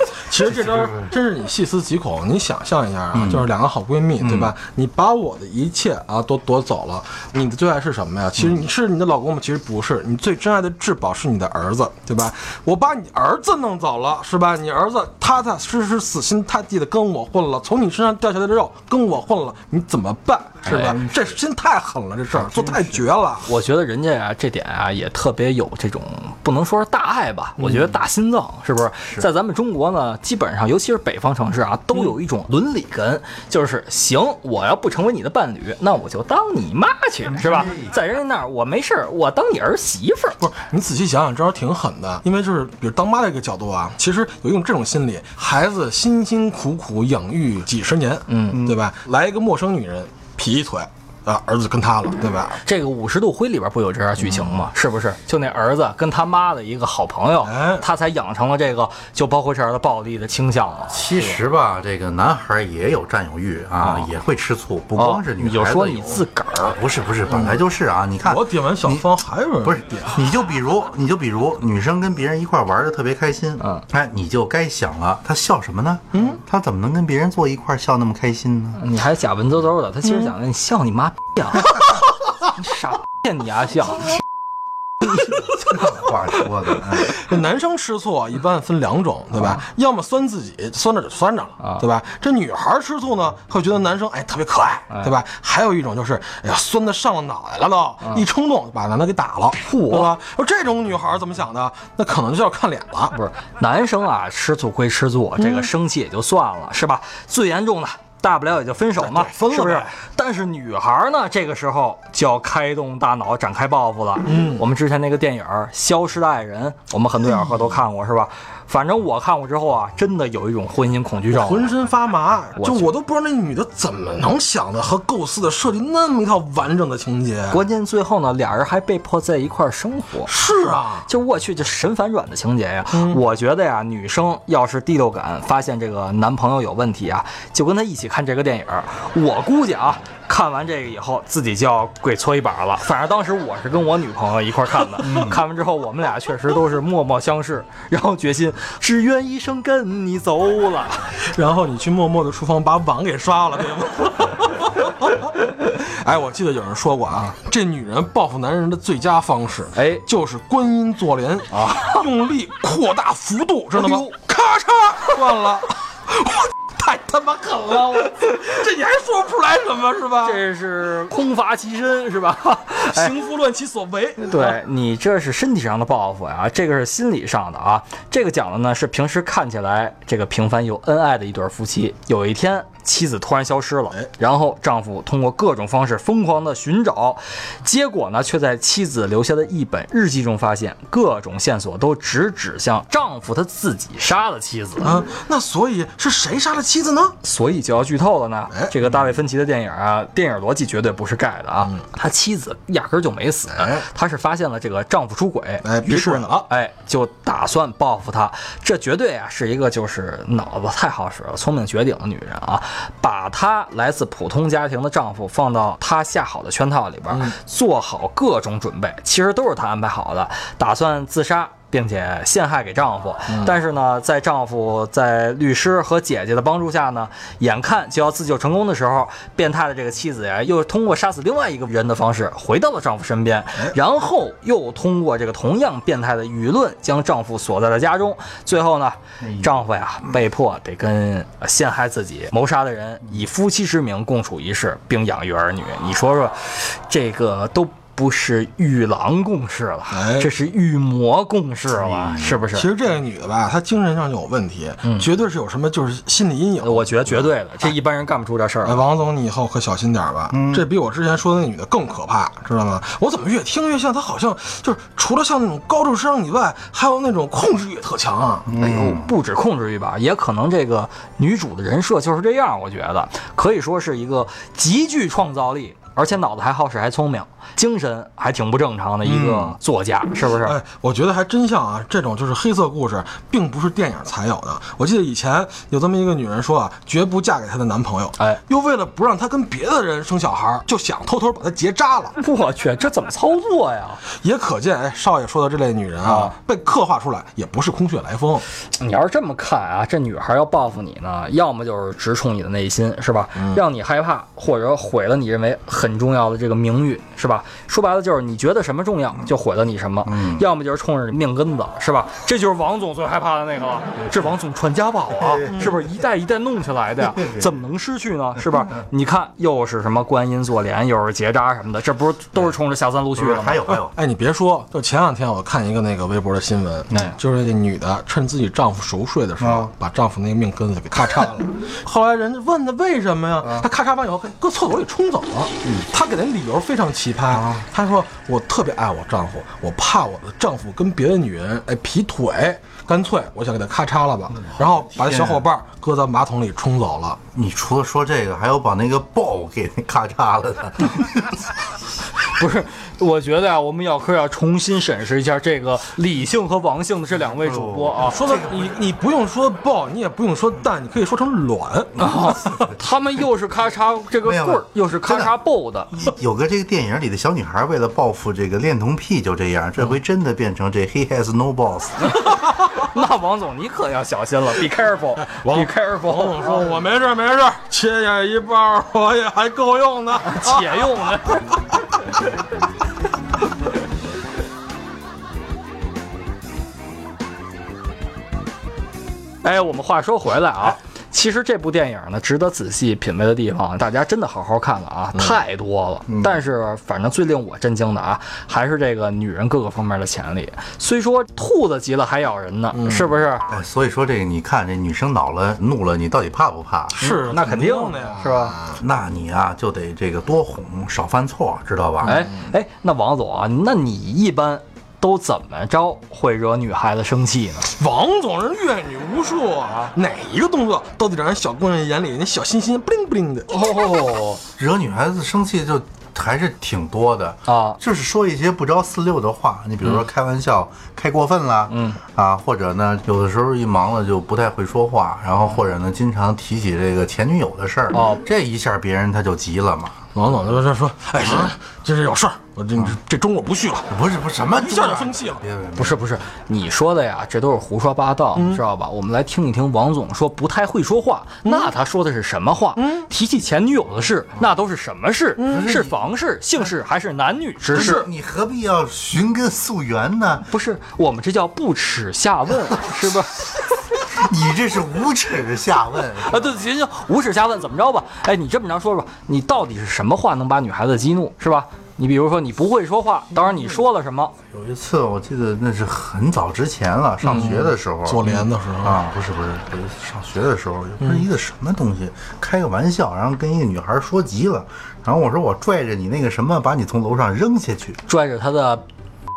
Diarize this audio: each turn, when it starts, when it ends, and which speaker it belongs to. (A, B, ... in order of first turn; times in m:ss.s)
0:00.3-0:23.4 A
0:00.4-0:01.1 B
0:03.1-0:03.5 B
0:04.2-0:04.5 B
0:20.6-0:21.4 B
0:20.7-0:21.0 C
0:22.3-0:23.0 B
0:23.4-0:40.4 C
0:27.6-0:27.9 A
0:37.3-0:38.0 B
0:40.4-0:52.6 A
0:48.3-0:48.6 C
0:52.6-1:01.3 C
0:57.4-0:57.8 A
1:00.9-1:09.1 B
1:03.8-1:04.1 C
1:05.0-1:06.8 C
1:07.3-1:07.6 A
1:08.2-1:10.2 A
1:09.6-1:18.8 B
1:16.1-1:16.4 A
1:18.8-1:21.8 C
1:22.5-1:24.1 C
1:25.7-1:27.2 B
1:27.1-1:43.1 A
1:39.6-1:40.1 C
1:43.1-2:01.7 C
1:45.4-1:45.7 A
1:49.0-1:49.9 A
1:54.2-1:54.6 A
1:57.2-1:57.6 A
2:01.3-2:07.6 A
2:02.6-2:02.9 C
2:07.5-2:10.3 C
2:10.3-2:11.1 A
2:11.0-2:31.1 C
2:12.9-2:13.2 A
2:25.0-2:25.4 B
2:31.2-2:50.4 A
2:39.7-2:40.0 C
2:41.5-2:42.0 C
2:43.7-2:44.1 C
2:50.2-2:53.1 C
2:52.8-2:54.5 A
2:54.2-3:14.9 C
3:14.8-3:17.1 A
3:17.2-4:12.7 C
3:23.5-3:23.8 A
3:25.6-3:26.5 A
3:43.3-3:43.6 A
3:59.2-3:59.6 B
4:09.9-4:10.3 A
4:11.7-4:12.4 B
4:12.5-4:17.3 A
4:16.6-4:18.8 C
4:18.6-4:28.5 A
4:20.3-4:20.6 B
4:28.4-4:29.1 B
4:28.6-4:40.6 C
4:39.0-4:39.6 A
4:40.2-4:52.2 A
4:52.2-4:54.0 C
4:54.2-4:58.4 A
4:56.0-4:56.3 C
4:58.7-5:23.6 C
5:03.3-5:03.6 A
5:10.0-5:10.4 B
5:14.0-5:14.3 B
5:15.1-5:15.6 B
5:17.0-5:17.6 B
5:23.2-5:23.9 B
5:23.9-5:47.2 A
5:29.4-5:29.7 B
5:33.4-5:33.7 B
5:37.3-5:37.6 B
5:44.6-5:45.4 B
5:47.3-5:51.4 B
5:52.3-5:58.2 C
5:57.2-5:58.8 B
5:58.0-6:02.0 A
6:02.0-6:06.0 C
6:02.1-6:02.7 B
6:04.2-6:05.3 B
6:05.9-6:12.1 B
6:12.1-6:16.6 C
6:15.3-6:21.0 A
6:20.2-6:21.5 C
6:29.4-6:43.5 C
6:36.1-6:36.4 B
6:42.7-6:43.1 A
6:43.5-6:47.0 B
6:46.9-6:48.8 A
6:47.0-6:48.6 C
6:48.8-6:52.2 B
6:52.0-6:52.4 A
6:52.0-6:57.7 C
6:57.7-7:03.5 A
6:59.7-6:59.9 C
7:03.5-7:04.4 C
7:04.6-7:20.0 B
7:07.5-7:07.8 C
7:11.7-7:12.0 C
7:17.9-7:18.2 C
7:20.1-7:23.9 A
7:21.2-7:21.5 B
7:23.9-7:26.0 B
7:24.5-7:25.4 A
7:25.8-7:38.0 C
7:28.3-7:28.6 A
7:31.4-7:31.7 A
7:32.8-7:33.1 A
7:35.4-7:35.6 A
7:35.5-7:35.9 B
7:37.7-7:40.5 B
7:37.7-7:38.0 A
7:40.5-7:43.4 C
7:44.1-7:46.6 B
7:46.2-7:54.3 C
7:54.5-8:08.0 B
7:57.2-7:57.5 C
7:57.3-7:59.0 A
8:01.0-8:01.2 A
8:08.1-8:08.8 C